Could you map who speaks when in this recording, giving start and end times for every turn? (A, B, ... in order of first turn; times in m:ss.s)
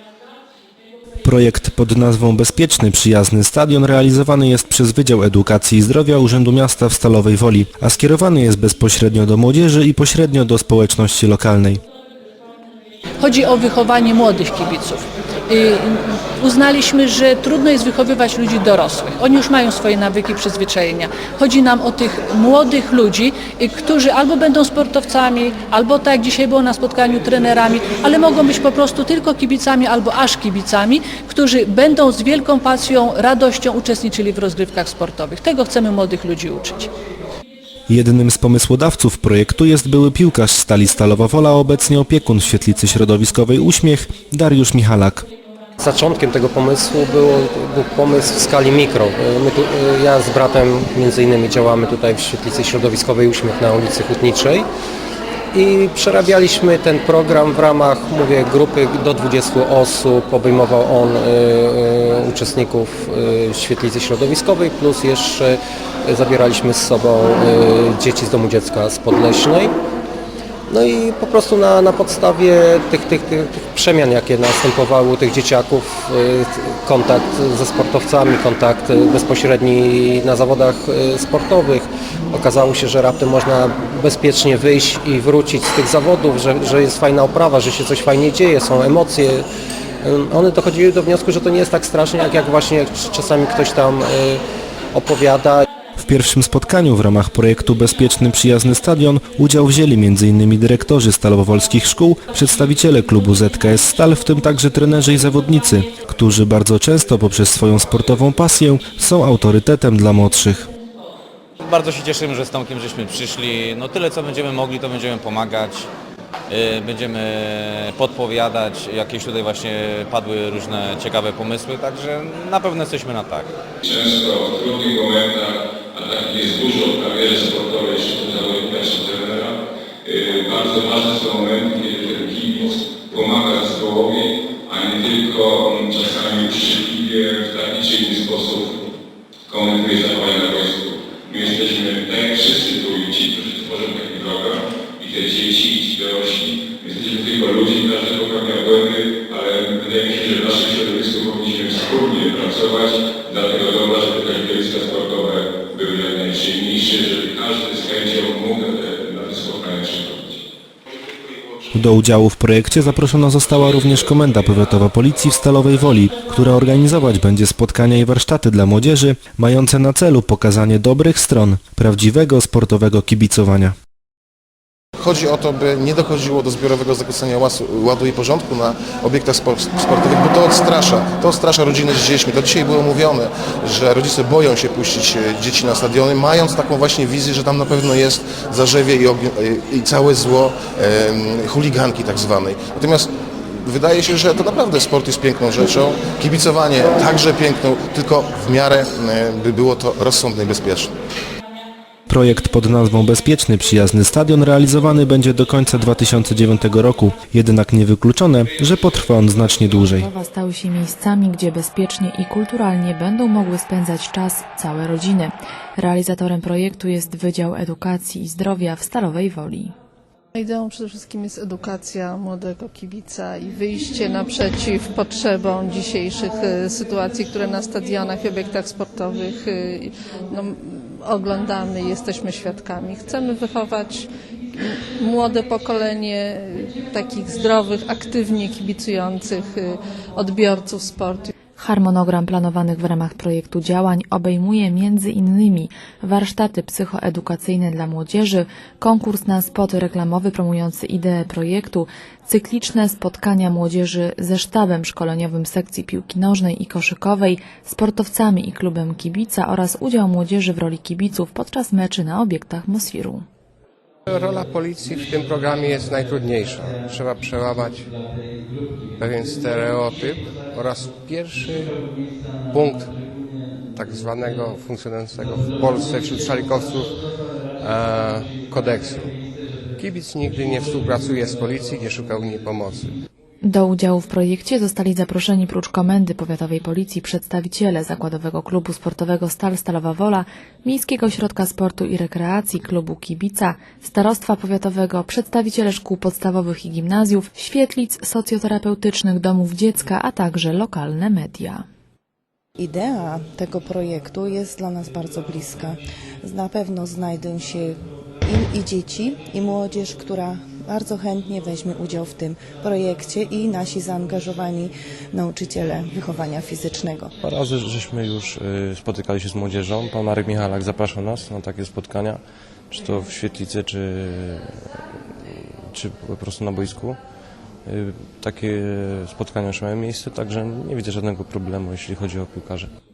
0:01.2-0:11.8 A
0:13.2-0:36.9 B
0:37.9-0:45.2 A
0:45.8-0:54.7 C
0:55.5-1:09.8 C
1:10.7-1:29.4 C
1:30.0-1:35.6 C
1:36.0-1:50.7 A
1:51.6-1:55.9 D
1:56.5-2:03.5 D
2:03.9-2:09.5 E
2:10.0-2:18.7 E
2:19.5-2:40.4 E
2:41.7-2:53.8 A
2:55.0-3:13.1 F
3:13.6-3:20.9 F
3:22.1-3:30.1 A
3:30.0-3:39.7 G
3:40.3-4:01.3 H
4:01.6-4:23.2 G
4:24.1-4:27.9 I
4:29.0-4:31.8 I
4:32.5-4:32.9 I
4:33.7-4:37.0 I
4:37.6-4:39.2 I
4:39.8-4:42.9 I
4:43.4-5:01.6 G
5:02.6-5:17.1 J
5:17.2-5:24.8 K
5:25.3-5:27.0 K
5:27.7-5:32.7 K